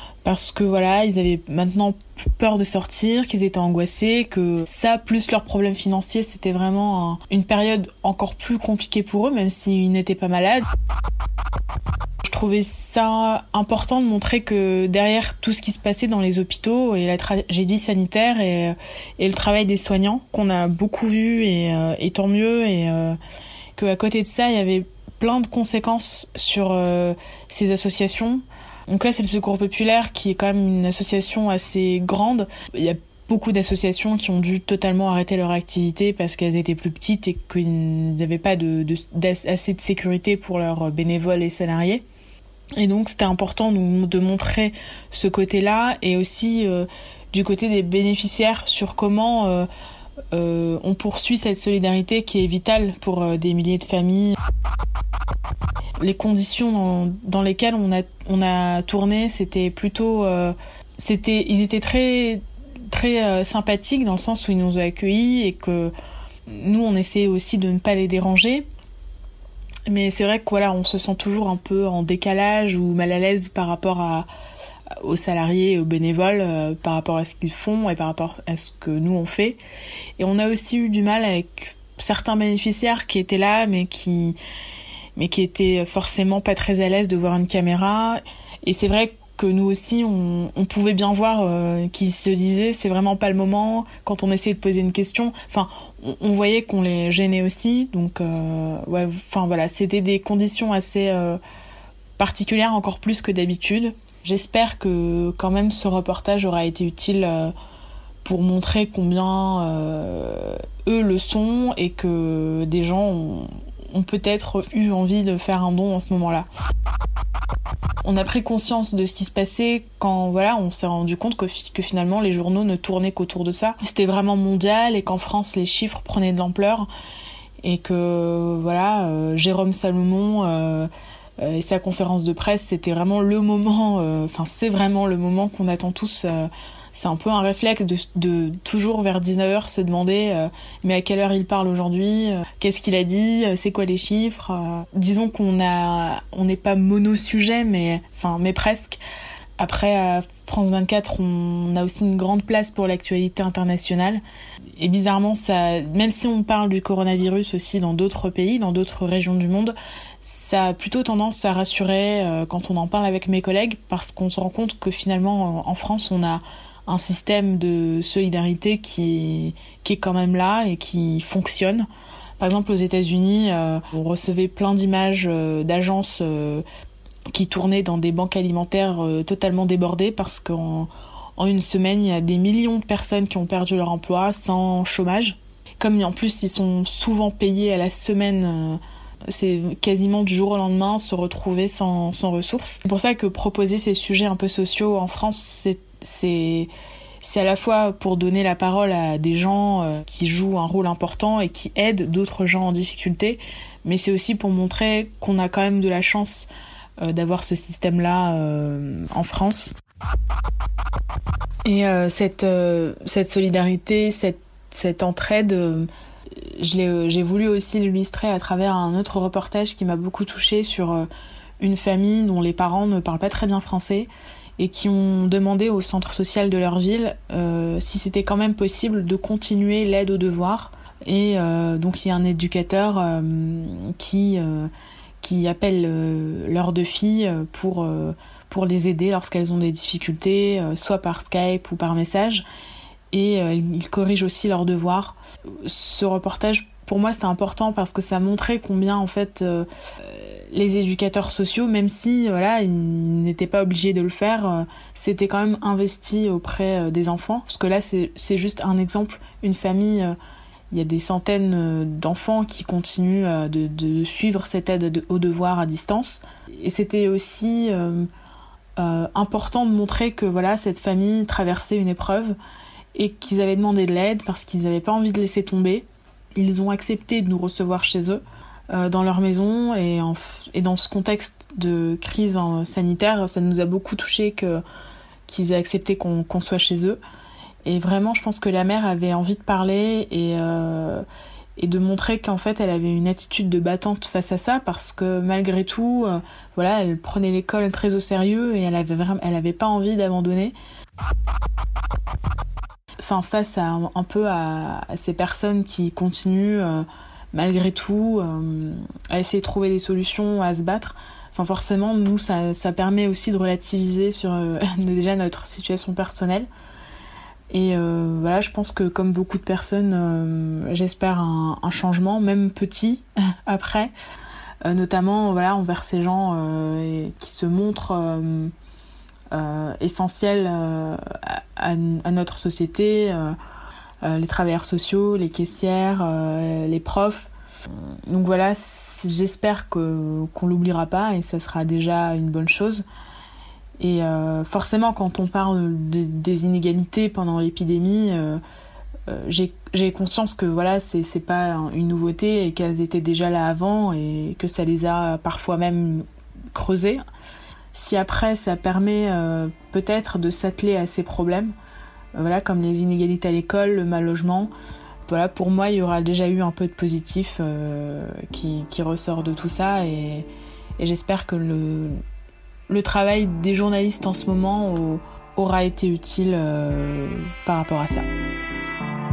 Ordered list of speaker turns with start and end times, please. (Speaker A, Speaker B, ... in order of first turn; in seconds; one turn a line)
Speaker A: 0.2-10.7
Speaker A: 12.2-23.2
Speaker A: 23.8-42.0
Speaker A: 42.8-49.7
Speaker A: 50.3-54.4
Speaker A: 56.0-65.9
Speaker A: 66.5-68.7
Speaker A: 69.9-74.3
Speaker A: 75.0-79.6
Speaker A: 80.2-84.4
Speaker A: 85.2-101.4
Speaker A: 102.2-107.5
Speaker A: 108.2-116.5
Speaker A: 118.0-126.9
Speaker A: 127.6-149.0
Speaker A: 149.6-154.2
Speaker A: 154.8-171.9
Speaker A: 172.4-176.6
Speaker A: 177.3-196.7
Speaker A: 197.2-206.5
Speaker A: 207.0-209.7
Speaker A: 211.6-221.1
Speaker A: 221.6-234.7
Speaker A: 235.2-242.4
Speaker A: 243.1-260.1
Speaker A: 260.7-268.1
Speaker A: 268.8-272.4
Speaker A: 272.9-284.6
Speaker A: 285.3-287.0
Speaker A: 287.6-291.0
Speaker A: 291.6-300.5
Speaker A: 303.0-316.5
Speaker A: 317.5-323.9
Speaker A: 324.6-328.5
Speaker A: 329.3-333.4
Speaker A: 334.0-337.3
Speaker A: 338.1-342.8
Speaker A: 343.8-348.4
Speaker A: 349.1-357.0
Speaker A: 357.7-361.5
Speaker A: 362.1-364.5
Speaker A: 365.1-370.3
Speaker A: 370.8-372.0
Speaker A: 372.7-378.1